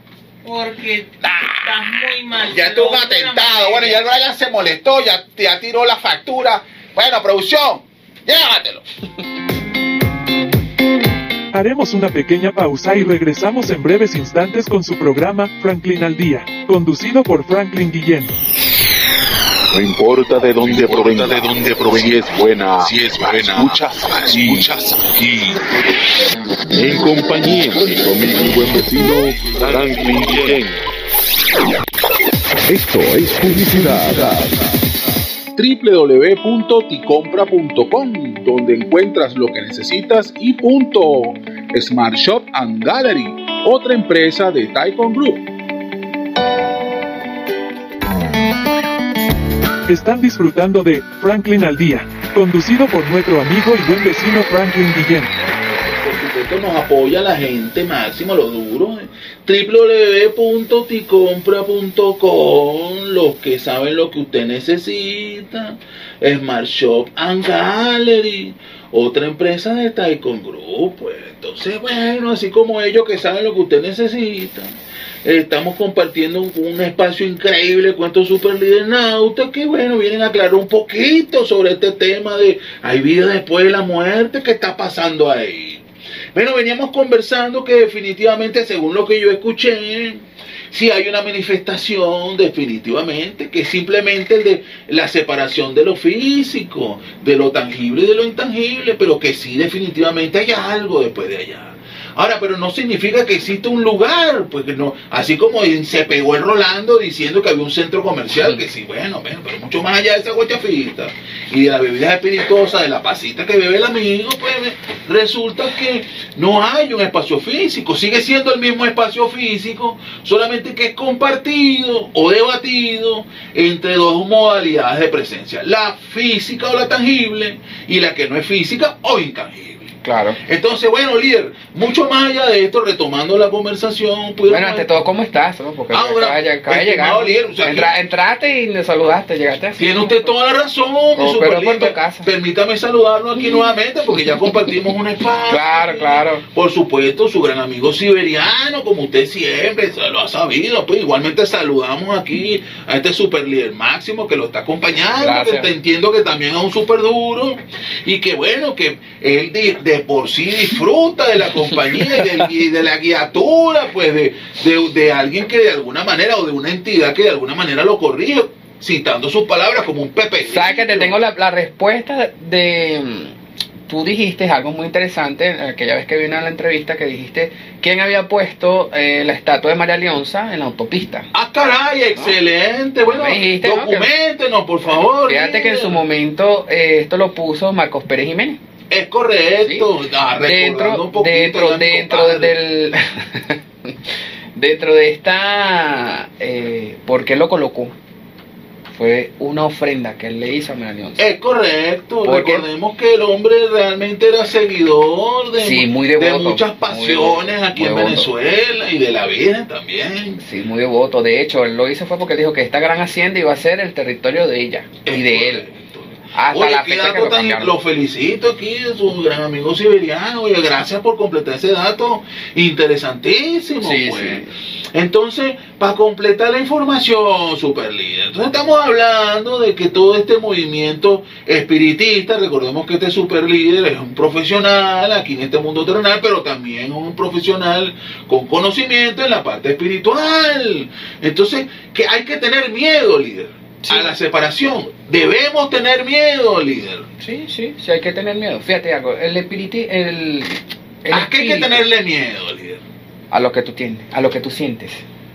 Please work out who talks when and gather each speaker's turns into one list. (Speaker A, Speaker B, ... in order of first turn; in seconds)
Speaker A: 0.4-4.0
Speaker B: 1.2-8.8, 35.6-45.4, 55.9-74.7, 75.2-129.9, 130.4-135.0, 135.9-137.9, 139.8-171.1, 181.3-186.0, 188.9-192.6, 201.2-210.4, 215.1-247.1, 251.1-252.8
Speaker C: 11.5-18.3, 49.9-55.3
Speaker D: 19.7-25.6, 26.7-30.9, 32.7-34.7
Speaker E: 130.0-130.4, 134.5-140.3, 141.1-142.3, 145.5-146.4, 155.2-155.7, 170.5-173.3, 173.9-181.3, 183.0-184.1, 185.3-188.6, 189.6-189.9, 190.4-193.9, 194.6-197.9, 198.9-201.2, 202.2-202.7, 205.6-208.3, 210.4-215.7, 216.3-217.7, 223.8-224.5, 243.8-244.1, 247.2-251.9, 253.3-255.0